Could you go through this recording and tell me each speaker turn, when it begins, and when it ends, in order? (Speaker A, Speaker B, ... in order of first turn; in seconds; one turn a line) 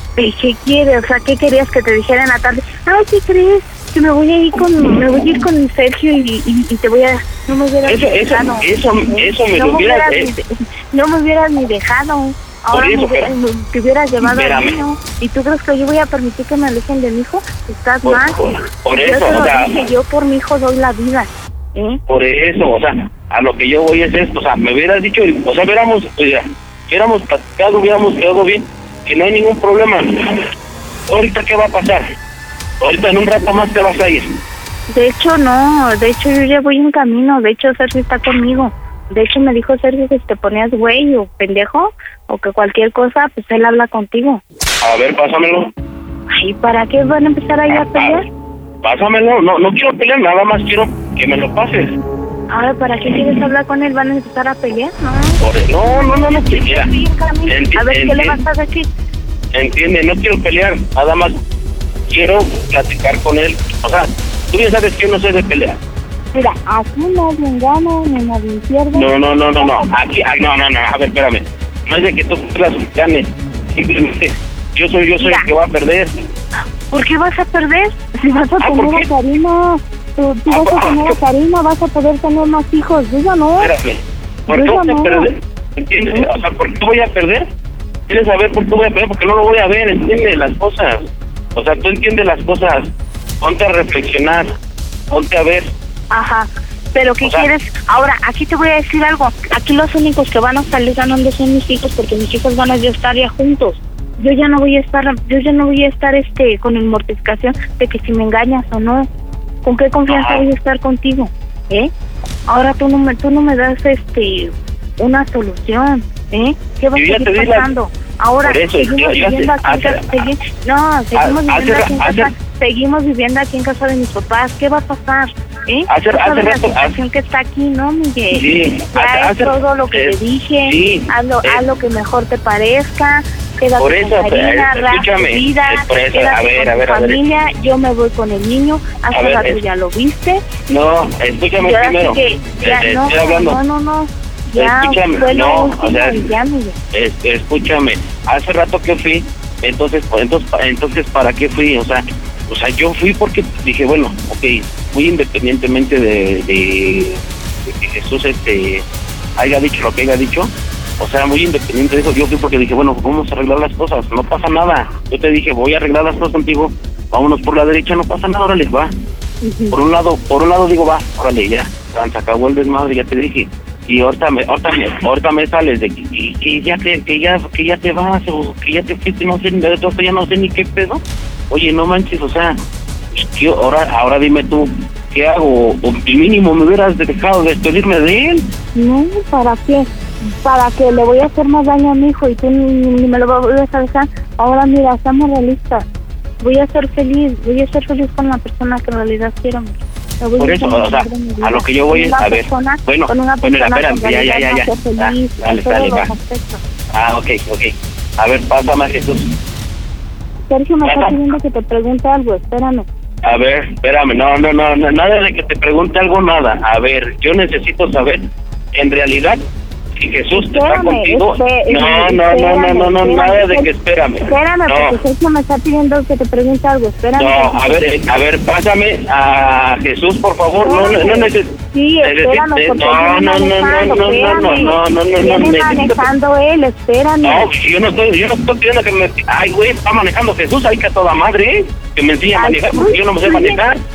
Speaker A: 0.2-18.3
Speaker B: 7.8-10.3
Speaker B: 12.7-13.3
Speaker B: 14.2-14.8
Speaker B: 18.0-19.7
Speaker A: 19.0-22.0
Speaker B: 22.1-30.4
Speaker B: 31.1-32.1
Speaker B: 32.8-34.4
Speaker A: 34.9-44.4
Speaker B: 44.8-45.7
Speaker A: 46.3-48.2
Speaker B: 47.7-48.2
Speaker B: 48.8-52.0
Speaker A: 52.5-58.9
Speaker B: 55.4-56.9
Speaker B: 57.5-58.4
Speaker B: 59.5-61.4
Speaker B: 62.1-65.8
Speaker A: 66.3-69.9
Speaker B: 68.9-76.1
Speaker A: 75.2-75.5
Speaker A: 76.9-83.7
Speaker B: 78.6-79.1
Speaker B: 80.5-81.2
Speaker B: 83.6-87.5
Speaker A: 84.5-85.3
Speaker B: 88.1-92.9
Speaker B: 93.4-94.5
Speaker B: 95.1-95.7
Speaker A: 96.1-109.1
Speaker B: 97.2-97.5
Speaker A: 109.6-111.9
Speaker B: 110.1-110.4
Speaker A: 112.5-140.5
Speaker B: 116.9-117.7
Speaker B: 118.4-120.2
Speaker B: 121.1-122.3
Speaker B: 125.9-127.0
Speaker B: 128.3-131.6
Speaker B: 133.8-137.2
Speaker B: 139.1-139.6
Speaker B: 140.7-143.6
Speaker A: 141.6-146.8
Speaker B: 144.6-146.3
Speaker B: 146.9-158.8
Speaker B: 159.4-168.9
Speaker A: 169.4-169.7
Speaker B: 169.7-182.6
Speaker B: 183.1-188.5
Speaker A: 188.7-195.8
Speaker A: 196.4-206.6
Speaker B: 200.4-206.1
Speaker B: 206.9-209.4
Speaker A: 210.5-212.8
Speaker B: 210.8-211.2
Speaker B: 213.2-219.4
Speaker B: 219.9-225.0
Speaker A: 220.3-223.7
Speaker A: 224.2-227.7
Speaker B: 227.2-236.1
Speaker A: 230.6-237.5
Speaker B: 237.2-243.8
Speaker A: 242.3-243.6